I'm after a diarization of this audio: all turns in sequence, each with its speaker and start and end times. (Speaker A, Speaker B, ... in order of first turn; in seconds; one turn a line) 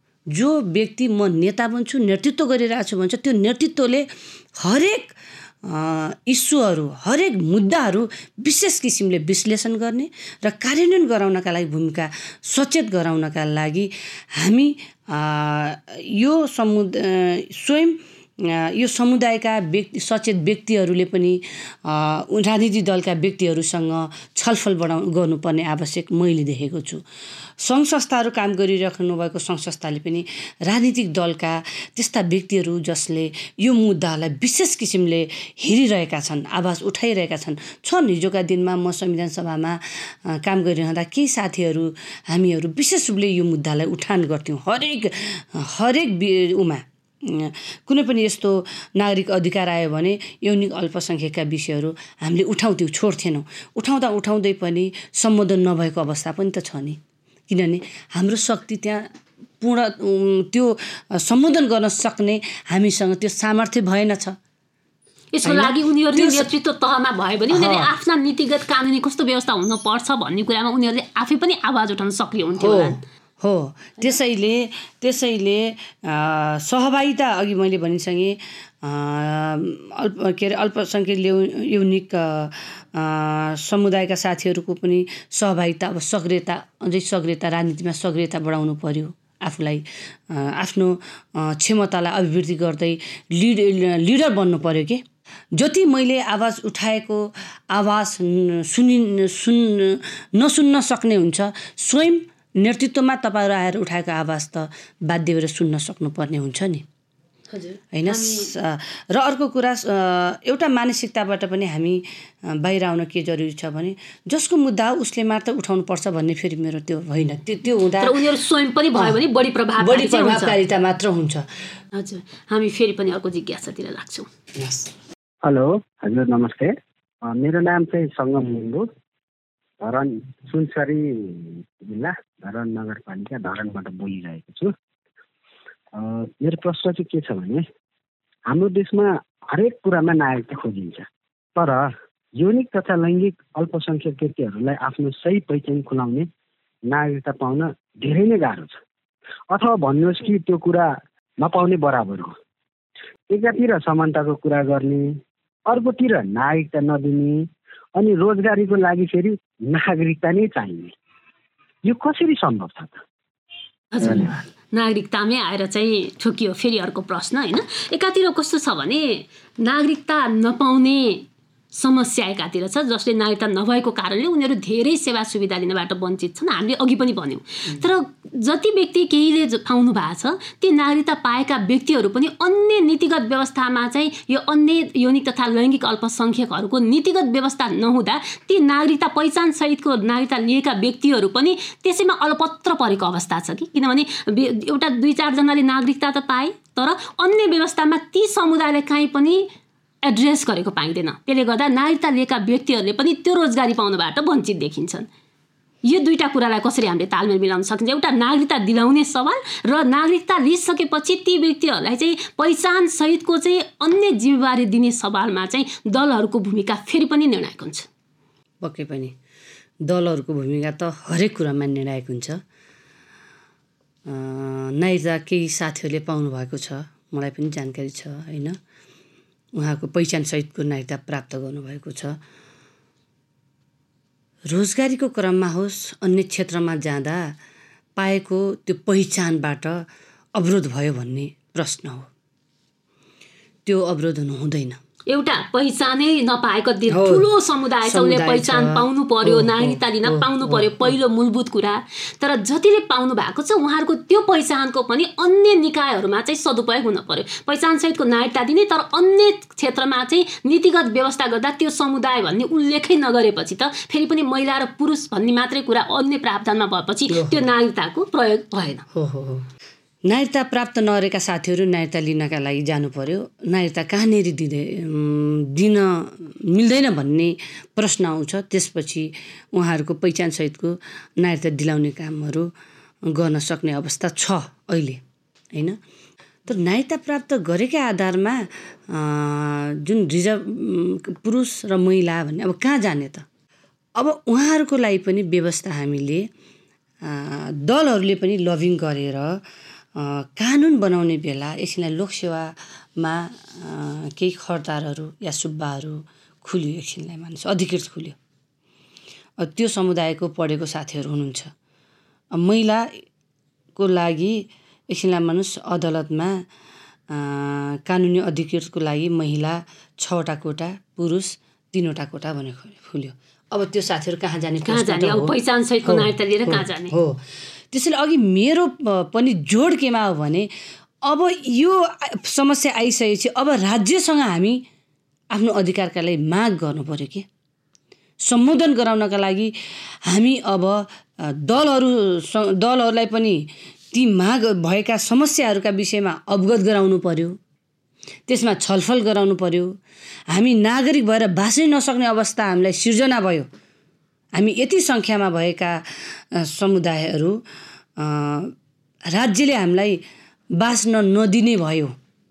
Speaker A: 0.3-27.0
Speaker A: 27.6-59.1
Speaker A: 59.6-64.4
Speaker B: 65.3-73.0
Speaker A: 65.4-66.5
Speaker A: 67.5-67.9
Speaker A: 72.6-95.0
Speaker A: 95.5-106.8
Speaker B: 107.5-108.5
Speaker A: 107.9-118.2
Speaker B: 118.0-120.6
Speaker A: 119.8-121.5
Speaker B: 121.9-124.3
Speaker A: 124.6-124.9
Speaker C: 125.4-128.9
Speaker C: 129.8-134.7
Speaker C: 135.9-137.6
Speaker C: 138.5-146.3
Speaker C: 146.9-148.8
Speaker C: 149.5-152.3
Speaker C: 153.3-155.1
Speaker C: 155.7-160.9
Speaker C: 161.8-163.0
Speaker B: 163.9-199.5
Speaker C: 164.0-164.4
Speaker B: 200.0-205.1
Speaker B: 205.8-217.9
Speaker A: 218.6-219.1
Speaker A: 219.8-222.4
Speaker A: 224.1-228.6
Speaker A: 229.5-232.2
Speaker A: 234.5-237.3
Speaker A: 238.0-242.1
Speaker A: 243.6-244.8
Speaker B: 245.1-268.8
Speaker A: 246.9-247.3
Speaker A: 247.8-250.9
Speaker A: 267.1-267.4
Speaker A: 268.9-269.5
Speaker A: 270.1-282.5
Speaker A: 283.1-285.0
Speaker A: 285.5-285.8
Speaker A: 286.4-293.2
Speaker A: 293.9-296.3
Speaker A: 297.0-299.4
Speaker A: 299.9-308.1
Speaker A: 309.4-311.5
Speaker A: 312.3-312.9
Speaker A: 313.8-316.4
Speaker A: 317.1-325.3
Speaker B: 324.6-326.9
Speaker A: 325.8-330.5
Speaker A: 331.0-334.6
Speaker A: 335.3-337.2
Speaker A: 338.2-339.5
Speaker A: 340.0-347.4
Speaker A: 348.3-349.8
Speaker A: 350.3-353.5
Speaker A: 354.3-357.4
Speaker A: 358.0-358.5
Speaker A: 359.1-360.0
Speaker A: 360.6-361.9